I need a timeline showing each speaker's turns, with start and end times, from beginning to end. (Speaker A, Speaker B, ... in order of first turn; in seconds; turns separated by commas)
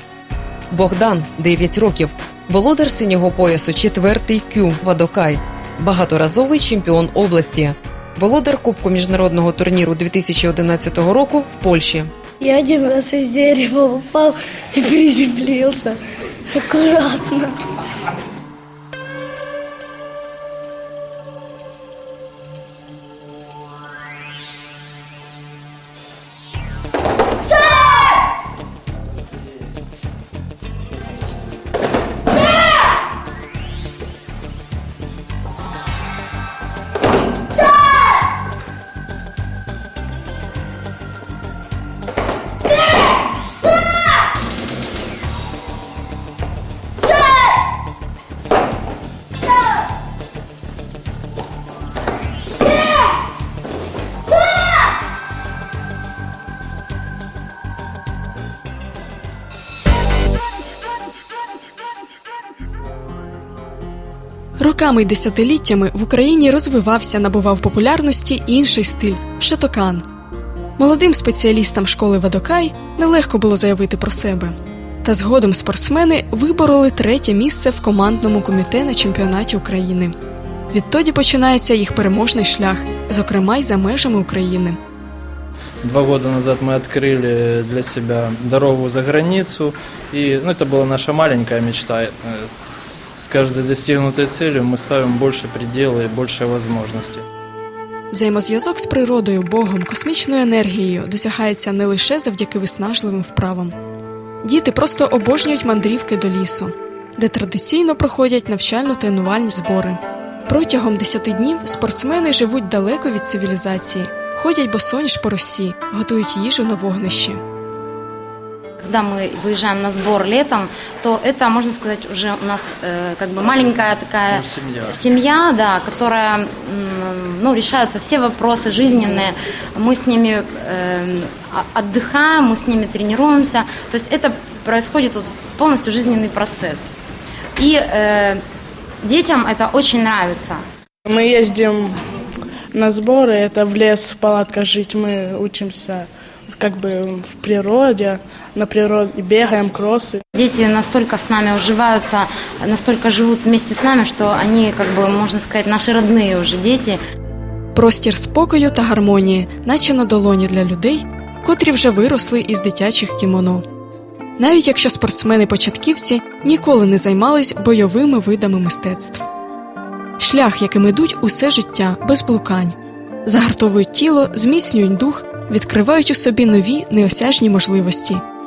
Speaker A: 0.7-12.1, Speaker B: 12.4-15.9, Speaker B: 16.5-17.5, Speaker C: 64.6-70.0, Speaker C: 70.8-80.1, Speaker C: 80.7-84.8, Speaker D: 85.8-92.5, Speaker D: 93.2-97.2, Speaker C: 98.1-103.7, Speaker C: 104.4-117.4, Speaker E: 118.8-136.9, Speaker D: 124.3-125.0, Speaker E: 137.6-138.4, Speaker E: 139.0-140.6, Speaker F: 141.1-141.9, Speaker F: 142.7-146.0, Speaker F: 146.6-150.2, Speaker E: 150.3-157.0, Speaker C: 157.7-163.7, Speaker C: 164.4-169.2, Speaker C: 170.2-178.2